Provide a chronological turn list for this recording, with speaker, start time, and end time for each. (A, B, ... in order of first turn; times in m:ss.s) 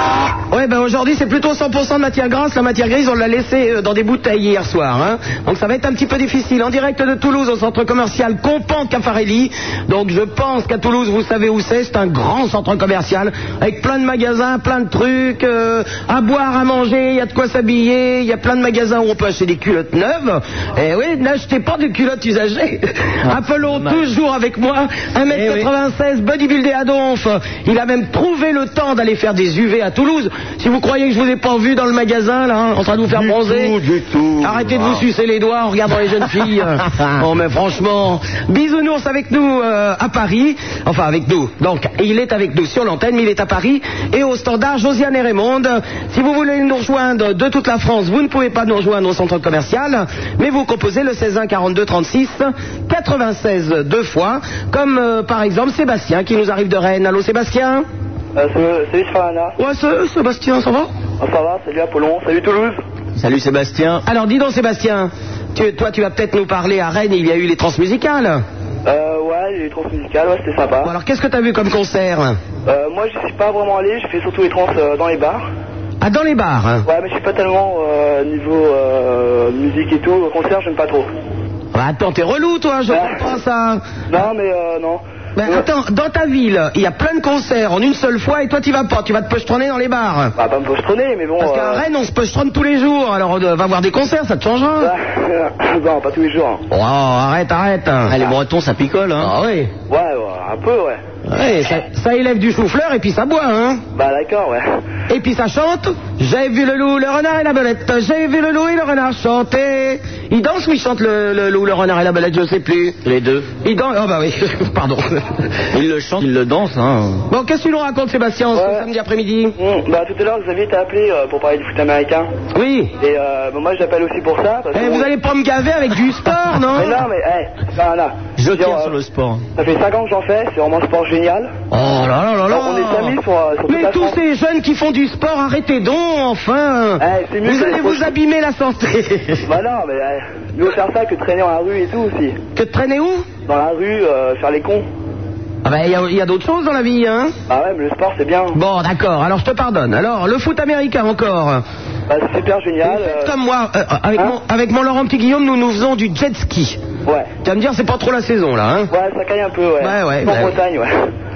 0:00.5-0:33.8 A
0:23.2-0:24.0 B
0:25.3-0:25.7 B
0:33.1-0:35.0 B
0:34.4-0:57.9 A
0:58.4-0:59.6 C
0:59.6-1:00.9 A
1:01.2-1:02.8 C
1:03.2-1:04.0 B
1:04.1-1:08.4 A
1:08.8-1:10.9 C
1:10.8-1:12.4 A
1:12.6-1:15.4 C
1:16.0-1:16.8 A
1:16.8-1:21.1 C
1:21.7-1:23.8 A
1:22.9-1:23.3 C
1:24.1-1:25.6 C
1:25.4-1:30.3 A
1:30.4-1:31.8 C
1:31.4-1:34.9 A
1:34.8-1:36.6 C
1:36.7-1:38.2 A
1:38.1-1:39.3 B
1:39.2-1:39.7 A
1:39.9-1:41.0 C
1:41.3-1:41.6 B
1:41.6-1:43.8 A
1:44.0-1:44.6 C
1:45.1-1:53.0 A
1:53.0-1:53.5 B
1:53.6-1:55.4 A
1:55.7-1:57.2 B
1:57.3-1:59.6 A
1:58.5-1:58.9 C
1:59.6-2:02.3 C
2:02.6-2:02.9 A
2:03.0-2:05.1 C
2:04.7-2:07.0 A
2:06.7-2:09.0 C
2:08.4-2:09.4 B
2:09.6-2:11.5 C
2:11.7-2:19.5 A
2:12.5-2:14.2 C
2:17.0-2:18.1 C
2:19.4-2:22.4 C
2:22.6-2:23.3 A
2:23.5-2:24.9 C
2:25.6-2:27.3 A
2:27.5-2:28.6 C
2:28.5-2:31.6 A
2:32.1-2:33.3 C
2:32.8-2:36.8 A
2:37.4-2:38.9 A
2:38.9-2:41.1 C
2:39.8-2:40.6 A